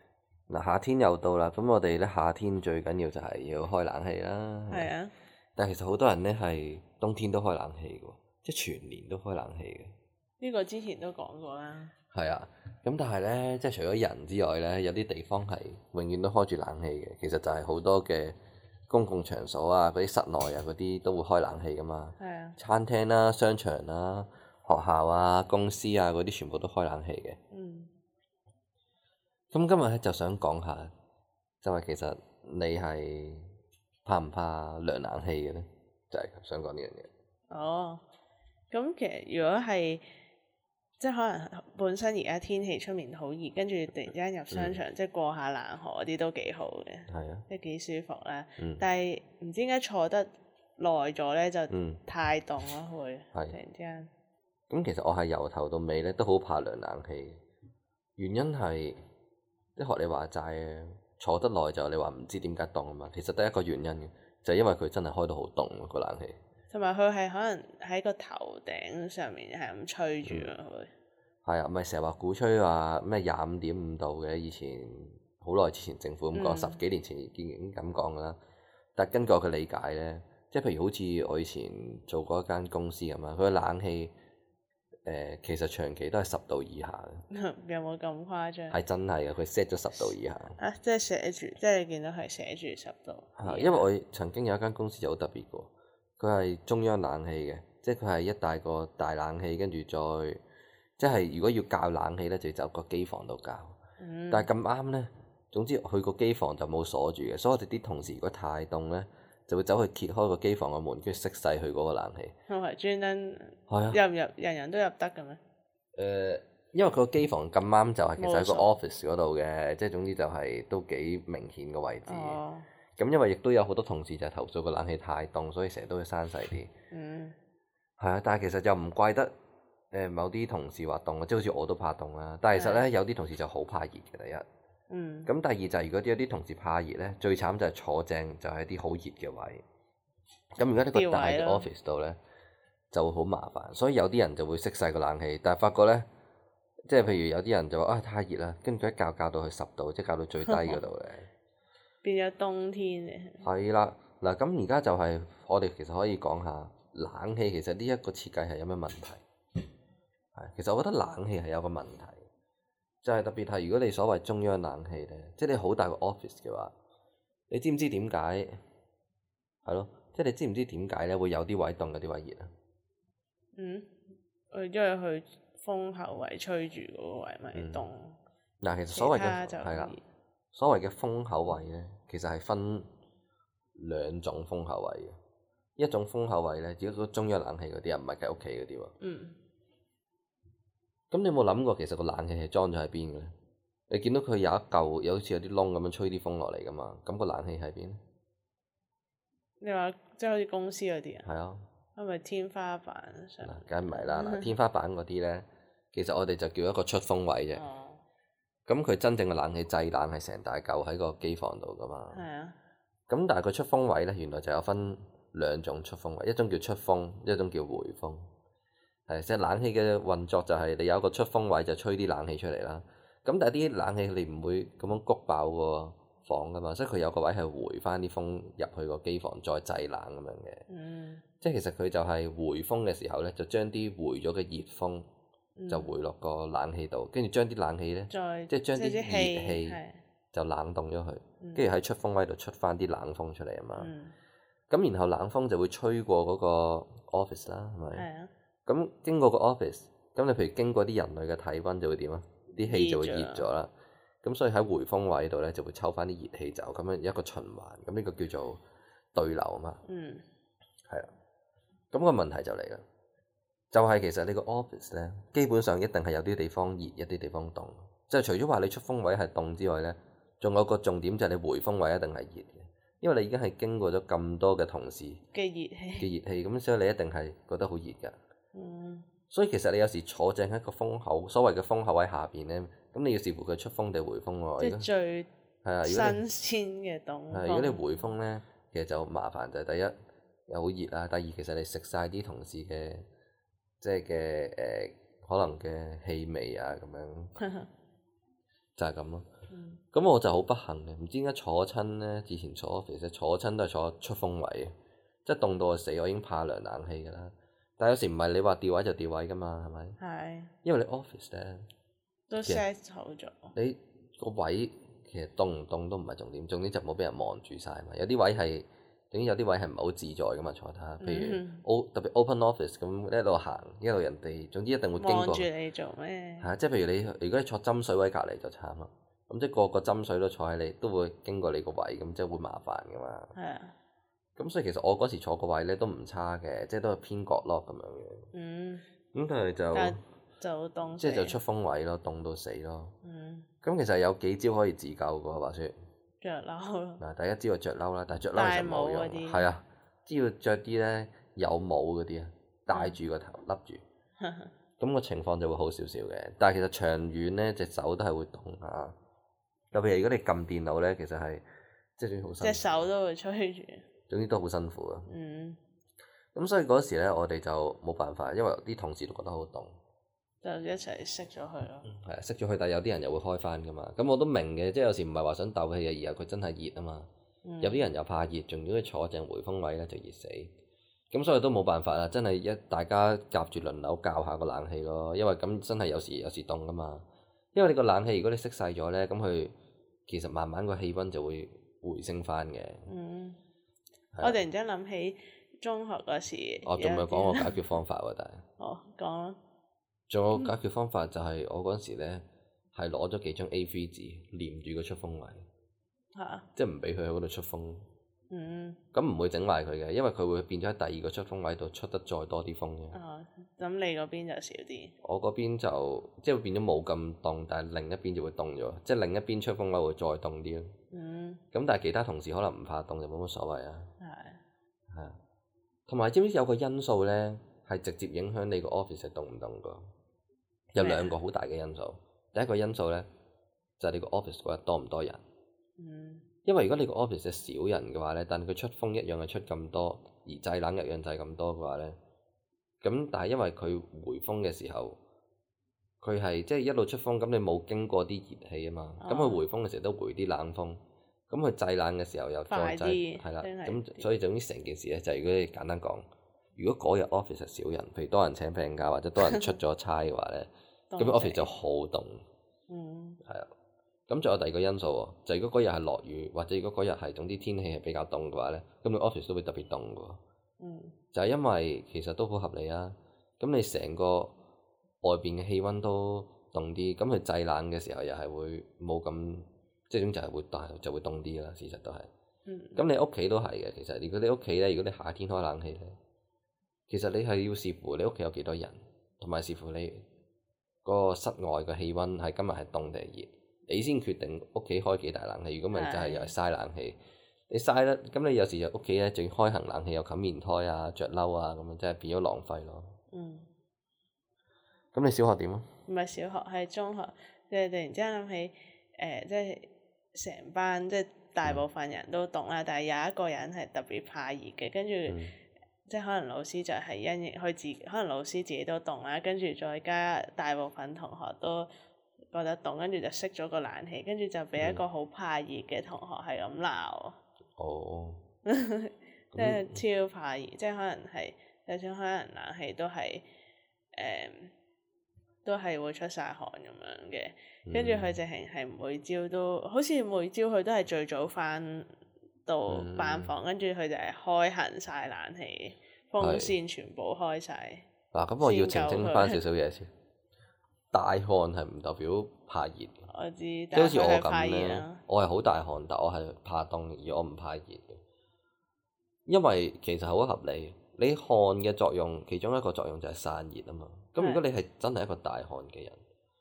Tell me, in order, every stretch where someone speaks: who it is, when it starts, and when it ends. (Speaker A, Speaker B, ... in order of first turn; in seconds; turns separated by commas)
Speaker A: 0.5-4.9, Speaker B: 4.7-5.1, Speaker A: 5.5-9.9, Speaker B: 10.4-11.9, Speaker A: 12.1-18.4, Speaker A: 18.9-27.4, Speaker B: 22.2-22.6, Speaker B: 27.5-27.9, Speaker A: 29.5-30.9, Speaker A: 31.6-33.5, Speaker A: 34.0-37.1, Speaker B: 37.5-38.0, Speaker B: 38.7-40.0, Speaker B: 41.0-54.1, Speaker A: 44.5-44.8, Speaker A: 47.1-47.5, Speaker A: 48.6-48.8, Speaker A: 51.7-52.0, Speaker A: 54.7-57.4, Speaker A: 58.2-59.0, Speaker A: 59.8-66.4, Speaker B: 66.7-70.9, Speaker A: 70.2-70.5, Speaker A: 71.4-78.4, Speaker B: 76.3-76.8, Speaker A: 79.0-84.1, Speaker A: 85.0-87.2, Speaker B: 87.3-88.8, Speaker A: 88.7-90.6, Speaker B: 90.6-93.9, Speaker A: 93.4-100.4, Speaker A: 101.0-103.8, Speaker B: 104.0-104.5, Speaker A: 104.3-112.3, Speaker B: 112.5-115.4, Speaker A: 113.7-114.0, Speaker A: 116.0-122.4, Speaker B: 118.2-118.7, Speaker B: 122.0-122.7, Speaker A: 123.0-126.7, Speaker B: 126.9-127.3, Speaker A: 128.0-129.3, Speaker A: 129.9-134.4, Speaker B: 132.5-132.9, Speaker B: 134.9-135.3, Speaker A: 135.3-139.6, Speaker A: 140.6-142.2, Speaker B: 140.9-141.7, Speaker A: 142.9-146.1, Speaker A: 146.9-151.3, Speaker B: 150.4-150.8, Speaker B: 152.0-153.4, Speaker A: 153.4-159.2, Speaker A: 160.3-162.2, Speaker A: 163.0-166.7, Speaker A: 167.5-168.5, Speaker A: 169.6-172.5, Speaker B: 173.5-173.9, Speaker B: 174.5-178.2, Speaker A: 177.5-177.8, Speaker A: 178.6-179.9, Speaker B: 178.9-180.0, Speaker A: 180.5-182.9, Speaker A: 183.7-185.2, Speaker A: 185.8-188.9, Speaker B: 189.0-189.4, Speaker A: 191.1-193.3, Speaker A: 193.9-198.0, Speaker B: 199.6-201.3, Speaker A: 201.2-201.6, Speaker B: 201.9-204.5, Speaker A: 203.4-207.6, Speaker B: 207.5-208.0, Speaker A: 208.7-212.2, Speaker B: 212.1-212.6, Speaker A: 213.1-218.3, Speaker A: 219.1-230.6, Speaker B: 230.7-231.2, Speaker A: 231.4-235.1, Speaker B: 235.6-235.9, Speaker A: 235.7-239.8, Speaker B: 238.1-240.0, Speaker A: 240.3-243.9, Speaker B: 241.4-241.7, Speaker B: 243.8-244.1, Speaker A: 244.7-248.1, Speaker B: 247.9-248.3, Speaker A: 248.7-258.6, Speaker B: 252.6-253.5, Speaker A: 259.1-259.8, Speaker B: 259.8-260.2, Speaker A: 261.9-262.8, Speaker A: 263.7-275.2, Speaker B: 275.3-276.1, Speaker A: 276.0-278.1, Speaker B: 278.5-279.1, Speaker A: 279.3-284.9, Speaker B: 284.6-285.3, Speaker A: 285.6-286.2, Speaker B: 285.8-287.8, Speaker A: 287.3-289.9, Speaker A: 290.5-293.1, Speaker A: 293.8-297.3, Speaker B: 297.4-297.7, Speaker A: 298.8-299.2, Speaker B: 299.5-299.8, Speaker A: 299.9-304.7, Speaker A: 305.2-310.0, Speaker B: 310.0-310.5, Speaker A: 310.6-311.6, Speaker B: 312.3-313.5, Speaker A: 313.5-325.5, Speaker B: 321.0-321.6, Speaker B: 325.0-326.5, Speaker A: 326.4-333.3, Speaker B: 333.3-333.7, Speaker A: 334.4-338.3, Speaker B: 338.3-338.8, Speaker A: 339.1-340.0, Speaker B: 339.7-341.4, Speaker A: 340.9-342.9, Speaker B: 343.0-343.4, Speaker A: 343.6-345.7, Speaker B: 346.2-347.0, Speaker A: 347.0-353.8, Speaker B: 348.3-349.5, Speaker B: 352.7-353.0, Speaker B: 354.2-354.5, Speaker A: 354.8-358.9, Speaker A: 359.7-361.4, Speaker A: 362.0-362.8, Speaker B: 362.4-363.9, Speaker A: 364.1-365.1, Speaker B: 365.1-365.6, Speaker A: 366.3-369.8, Speaker B: 370.4-371.9, Speaker A: 371.9-377.1, Speaker B: 377.4-377.9, Speaker A: 377.6-380.5, Speaker A: 381.1-389.5, Speaker A: 390.1-392.9, Speaker B: 392.9-393.4, Speaker A: 394.1-394.4, Speaker B: 394.2-397.6, Speaker A: 396.6-398.4, Speaker B: 398.6-399.4, Speaker A: 400.1-405.4, Speaker B: 406.1-406.4, Speaker A: 406.6-407.8, Speaker B: 408.3-408.8, Speaker A: 408.9-413.0, Speaker B: 412.9-414.9, Speaker A: 415.0-420.7, Speaker B: 420.9-421.4, Speaker A: 421.5-423.9, Speaker B: 424.0-424.4, Speaker A: 424.9-425.2, Speaker A: 425.9-429.9, Speaker A: 430.7-433.1, Speaker B: 430.8-431.1, Speaker A: 433.8-435.2, Speaker B: 435.8-436.2, Speaker A: 436.4-442.0, Speaker A: 442.8-445.0, Speaker A: 446.0-456.0, Speaker B: 449.0-449.4, Speaker B: 452.5-454.1, Speaker A: 456.6-462.2, Speaker B: 459.2-459.5, Speaker B: 460.9-461.5, Speaker B: 462.7-463.2, Speaker A: 463.2-463.5, Speaker A: 464.1-470.2, Speaker B: 470.6-470.9, Speaker A: 471.1-474.3, Speaker A: 475.0-482.1, Speaker B: 482.4-482.8, Speaker A: 482.8-486.0, Speaker A: 486.9-490.0, Speaker A: 490.8-496.9, Speaker B: 495.7-496.3, Speaker A: 497.5-502.9, Speaker B: 503.1-503.5, Speaker A: 504.9-505.6, Speaker B: 505.9-515.2, Speaker A: 515.1-515.3, Speaker B: 515.9-521.7, Speaker B: 522.3-527.2, Speaker A: 524.6-524.8, Speaker A: 527.6-528.2, Speaker B: 528.5-533.2, Speaker A: 529.3-529.8, Speaker B: 533.9-534.5, Speaker B: 535.4-541.9, Speaker A: 537.6-538.2, Speaker B: 542.5-547.9, Speaker A: 542.7-543.3, Speaker A: 546.2-546.5, Speaker A: 548.1-549.9, Speaker B: 548.4-549.4, Speaker A: 550.9-553.0, Speaker B: 553.1-555.0, Speaker A: 553.7-558.0, Speaker A: 559.2-566.0, Speaker B: 564.2-564.4